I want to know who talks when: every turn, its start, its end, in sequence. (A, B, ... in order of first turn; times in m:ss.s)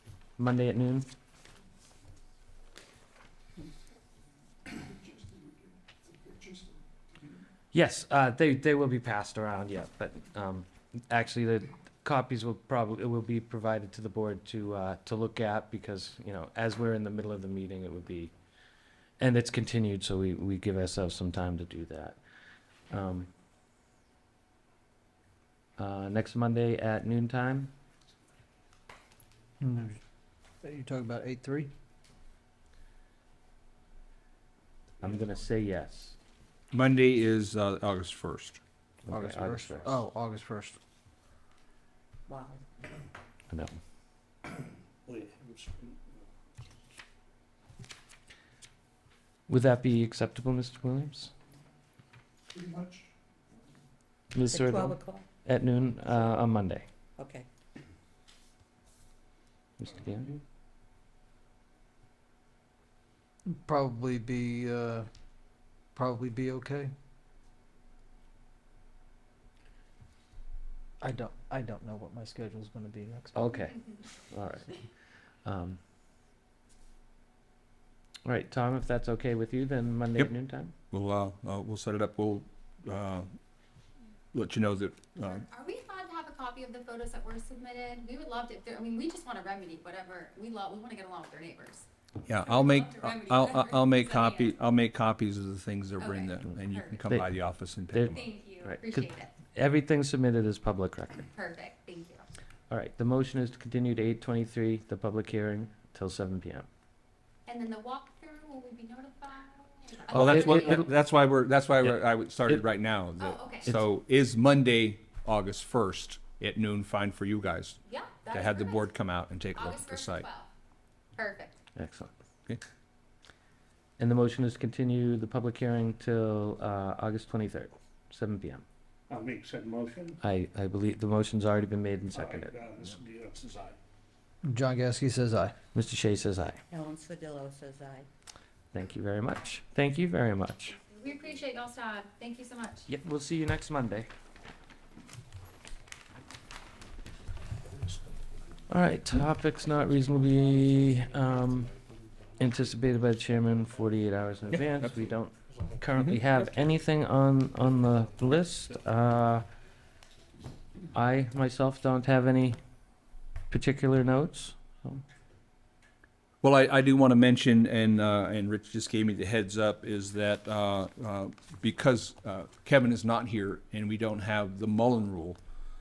0:00.4-0:01.1 A
0:07.7-0:18.3 A
0:19.2-0:22.2 A
0:22.9-0:23.3 A
0:25.8-0:27.7 A
0:29.6-0:30.0 B
0:30.6-0:31.7 B
0:35.0-0:36.2 A
0:36.7-0:38.6 C
0:39.1-0:40.0 A
0:39.1-0:40.8 B
0:42.3-0:42.6 D
0:43.5-0:43.8 A
0:45.1-0:46.0 E
0:49.5-0:51.3 A
0:52.6-0:53.0 E
0:54.3-0:56.9 A
0:54.5-0:55.3 D
0:57.2-0:57.5 D
0:59.8-1:00.4 A
1:03.5-1:05.1 B
1:06.0-1:06.9 B
1:11.0-1:13.5 B
1:13.4-1:14.7 A
1:15.4-1:15.8 A
1:18.2-1:20.7 A
1:20.9-1:23.3 C
1:24.3-1:25.4 C
1:25.3-1:31.8 F
1:32.3-1:38.3 C
1:32.7-1:34.5 F
1:36.0-1:37.0 F
1:37.9-1:41.3 A
1:38.1-1:39.3 F
1:41.3-1:42.3 F
1:42.7-1:46.7 A
1:47.5-1:50.8 F
1:50.1-1:50.9 A
1:50.1-1:57.8 C
1:53.2-1:53.5 F
1:57.9-1:58.8 F
1:58.3-2:00.3 C
1:59.6-2:00.5 F
2:01.2-2:01.5 F
2:01.8-2:02.1 A
2:04.0-2:08.6 A
2:09.1-2:10.2 E
2:10.2-2:12.6 A
2:12.1-2:13.8 E
2:14.4-2:15.6 B
2:15.7-2:16.6 A
2:16.7-2:18.1 D
2:18.7-2:20.8 A
2:20.8-2:22.9 F
2:22.9-2:24.1 A
2:28.7-2:31.7 A
2:32.4-2:39.5 A
2:40.9-2:42.6 A
2:43.5-2:45.0 A
2:46.4-2:55.4 C